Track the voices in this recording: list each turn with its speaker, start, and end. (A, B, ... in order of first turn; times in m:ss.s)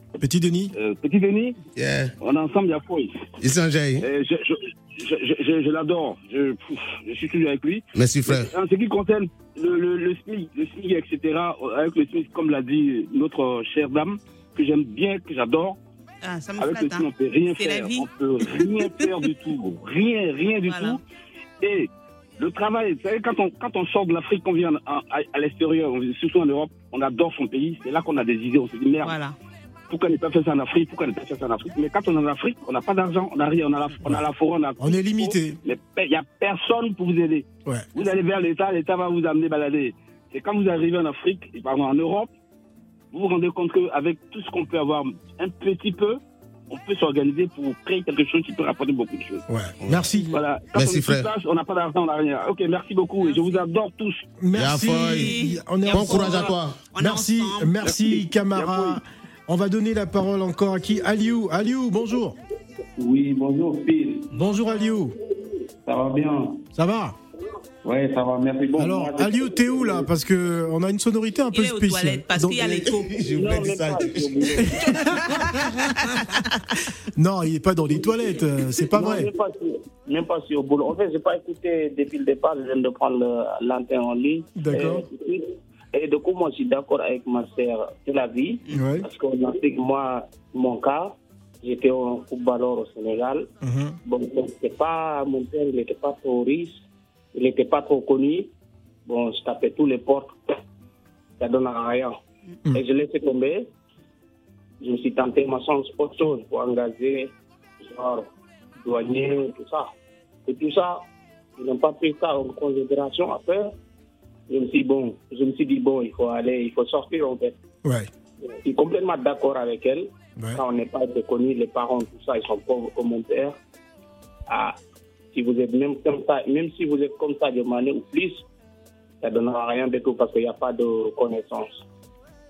0:00.2-0:00.7 A
0:00.7-0:01.6 B
0:01.8-0:02.1 C
0:02.2-0:03.2 B
0:03.4-0:04.0 C
0:04.0-0:15.8 B
0:07.9-0:08.5 C
0:16.2-0:18.6 D
0:16.6-0:21.0 B
0:20.6-0:21.0 D
0:21.6-0:29.2 B
0:29.0-0:29.3 D
0:29.9-0:42.3 B
0:34.8-0:35.6 A
0:43.1-0:46.2 B
0:46.7-0:49.4 B
0:49.5-0:50.3 A
0:49.8-0:50.1 C
0:50.2-0:50.4 D
0:50.3-0:54.2 B
0:50.7-0:51.3 C
0:53.2-0:53.6 D
0:54.4-1:02.4 A
0:54.5-0:55.3 C
0:54.9-0:58.0 D
0:55.9-0:56.8 C
0:57.9-0:59.0 B
1:03.0-1:04.3 E
1:04.3-1:05.2 A
1:05.8-1:06.6 E
1:06.8-1:07.2 A
1:07.8-1:10.0 E
1:08.8-1:13.0 A
1:11.5-1:13.2 D
1:13.1-1:14.8 C
1:13.2-1:15.1 E
1:14.7-1:15.6 D
1:14.7-1:16.2 A
1:17.2-1:19.3 A
1:18.9-1:33.5 E
1:24.6-1:25.0 A
1:28.7-1:29.1 A
1:33.6-1:34.0 A
1:34.0-1:36.8 E
1:37.3-1:38.5 E
1:39.0-1:40.4 E
1:41.4-1:42.2 E
1:42.7-1:43.6 E
1:44.8-1:48.3 E
1:48.8-1:49.9 E
1:50.4-1:51.0 E
1:51.6-1:53.7 E
1:54.5-1:57.6 E
1:58.6-2:03.6 E
2:04.5-2:04.8 E
2:05.3-2:08.4 E
2:09.2-2:11.8 E